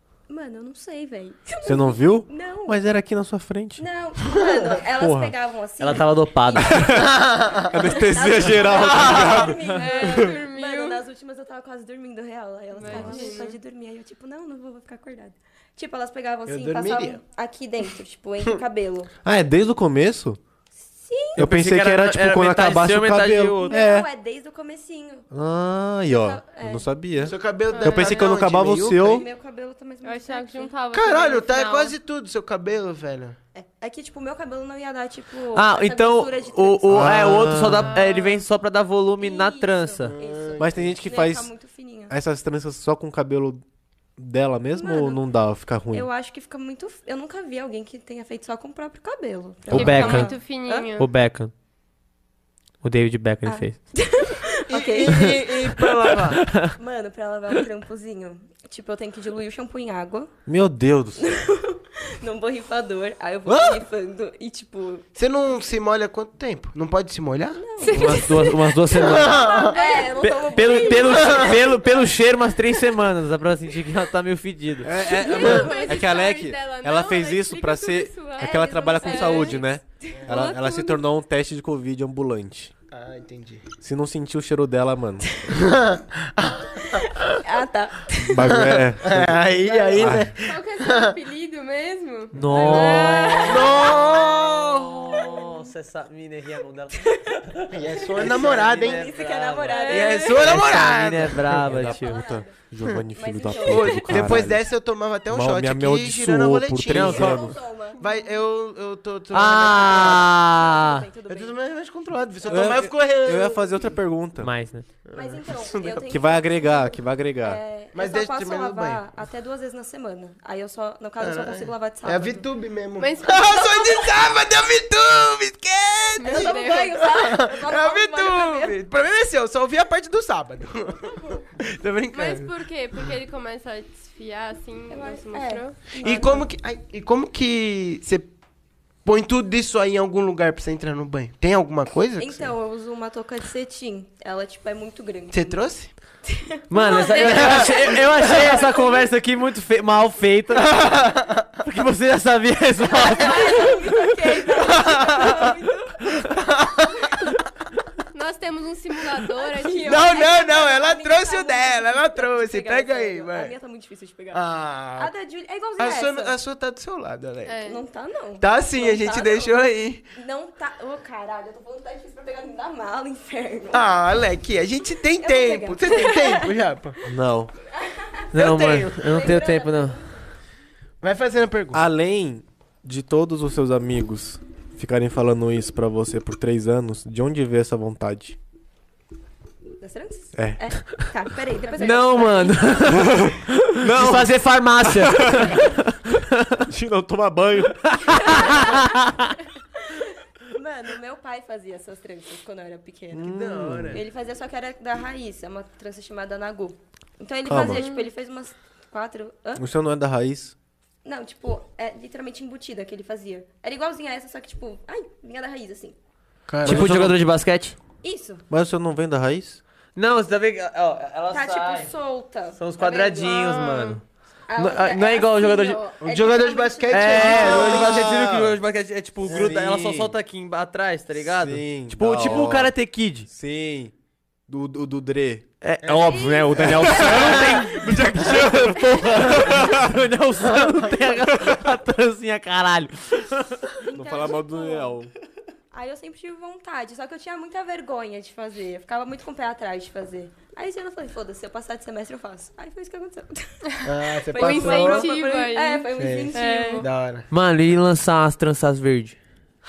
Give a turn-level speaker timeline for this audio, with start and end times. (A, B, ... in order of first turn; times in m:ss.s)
0:00.3-0:03.0 A
0:01.6-0:03.8 B
0:03.8-0:19.1 A
0:04.9-0:05.3 B
0:05.8-0:07.0 C
0:06.6-0:07.1 B
0:06.9-0:07.8 D
0:07.7-0:10.3 B
0:08.8-0:09.2 D
0:09.6-0:11.0 E
0:12.8-0:13.6 E
0:12.8-0:13.1 B
0:16.5-0:17.2 D
0:19.2-0:20.4 B
0:20.7-0:21.4 A
0:21.4-0:24.1 B
0:21.4-0:23.8 C
0:23.6-0:25.3 A
0:25.3-0:29.2 B
0:26.1-0:26.9 A
0:27.2-0:29.2 D
0:27.7-0:28.2 E
0:29.0-0:30.7 A
0:30.0-0:31.9 E
0:30.9-0:33.4 D
0:33.5-0:37.5 A
0:35.5-0:40.2 C
0:36.9-0:38.0 B
0:37.7-0:38.4 E
0:39.2-0:42.2 A
0:40.0-0:41.0 D
0:40.6-0:41.5 B
0:42.1-0:43.6 B
0:44.2-0:46.1 B
0:44.7-0:45.3 A
0:45.9-0:50.9 A
0:49.7-0:50.4 C
0:49.7-0:51.1 E
0:51.0-0:51.5 C
0:52.8-0:53.8 C
0:53.4-0:55.9 A
0:54.7-0:56.4 D
0:55.0-0:56.7 C
0:56.7-1:00.3 A
1:00.4-1:01.4 B
1:01.2-1:05.1 A
1:03.5-1:03.8 B
1:05.2-1:07.6 D
1:07.5-1:12.1 A
1:07.8-1:08.8 E
1:07.9-1:09.4 C
1:09.0-1:09.8 D
1:09.3-1:11.1 E
1:10.3-1:14.9 C
1:14.8-1:22.7 B
1:15.0-1:19.6 E
1:15.2-1:16.0 A
1:18.4-1:21.0 A
1:22.9-1:23.7 D
1:23.8-1:25.4 B
1:25.5-1:27.4 D
1:26.9-1:28.6 A
1:28.3-1:30.3 B
1:28.4-1:31.1 D
1:29.6-1:30.2 A
1:30.4-1:33.9 E
1:32.3-1:42.2 C
1:32.5-1:35.5 A
1:32.6-1:35.2 D
1:37.0-1:40.9 A
1:37.7-1:39.1 D
1:39.8-1:41.6 D
1:41.5-1:44.7 B
1:41.6-1:42.5 A
1:43.1-1:44.4 A
1:43.6-1:50.3 D
1:45.3-1:47.6 B
1:46.9-1:47.5 C
1:47.1-1:48.0 A
1:49.3-1:51.1 C
1:49.6-1:51.6 A
1:51.3-1:53.9 D
1:52.4-1:54.6 B
1:54.4-1:54.8 C
1:55.1-1:56.1 D
1:55.1-2:02.4 A
1:56.1-1:57.6 B
1:57.9-1:59.0 D
2:01.2-2:12.5 D
2:03.0-2:04.0 E
2:06.2-2:07.1 E
2:06.2-2:08.8 A
2:11.0-2:11.4 A
2:12.1-2:16.0 E
2:14.9-2:16.4 A
2:16.0-2:18.3 D
2:19.0-2:22.5 D
2:22.2-2:25.6 A
2:25.3-2:25.9 D
2:26.2-2:29.1 A
2:26.7-2:31.0 C
2:26.8-2:28.4 E
2:27.3-2:27.7 D
2:30.5-2:31.6 D
2:31.6-2:33.9 C
2:32.8-2:36.3 A
2:34.4-2:35.5 D
2:36.2-2:37.3 D
2:38.1-2:40.2 E
2:39.4-2:44.4 A
2:39.8-2:43.5 D
2:44.3-2:45.1 D
2:44.9-2:46.4 A
2:45.8-2:47.6 D
2:47.4-2:47.8 E
2:47.6-2:53.9 A
2:48.4-2:50.0 D
2:53.7-2:57.0 D
2:55.2-2:56.5 A
2:57.0-2:57.5 B
2:57.7-3:00.2 A
2:58.3-3:00.0 C
2:58.3-2:59.3 D
3:01.0-3:01.8 D
3:01.7-3:08.4 B
3:09.8-3:13.2 A
3:10.3-3:11.2 B
3:11.8-3:16.6 C
3:13.0-3:15.7 B
3:16.6-3:18.8 B
3:18.0-3:19.4 C
3:18.1-3:18.9 A
3:19.8-3:29.6 A
3:23.1-3:24.0 B
3:23.3-3:24.0 D
3:27.5-3:27.8 B
3:27.7-3:28.0 E
3:29.6-3:30.5 B
3:31.0-3:36.0 A
3:36.5-3:37.0 D
3:36.6-3:37.2 B
3:36.6-3:37.8 C
3:38.0-3:38.4 A
3:38.5-3:39.6 B
3:40.0-3:41.9 C
3:41.3-3:43.4 A
3:42.6-3:44.0 C
3:43.2-3:44.0 E
3:44.5-3:47.9 A
3:44.6-3:45.8 C
3:46.0-3:48.0 D
3:46.9-3:53.3 C
3:47.3-3:48.6 B
3:49.2-3:50.1 B
3:51.1-3:53.9 B
3:54.5-3:55.5 B
3:55.6-4:03.6 C
3:55.8-3:56.3 D
3:56.0-3:58.3 A
3:56.6-3:59.9 B
4:00.5-4:00.8 D
4:03.8-4:05.0 A
4:03.9-4:05.1 B
4:05.7-4:16.9 A
4:13.8-4:15.1 D
4:14.3-4:16.8 E
4:16.0-4:17.3 D
4:17.3-4:19.2 C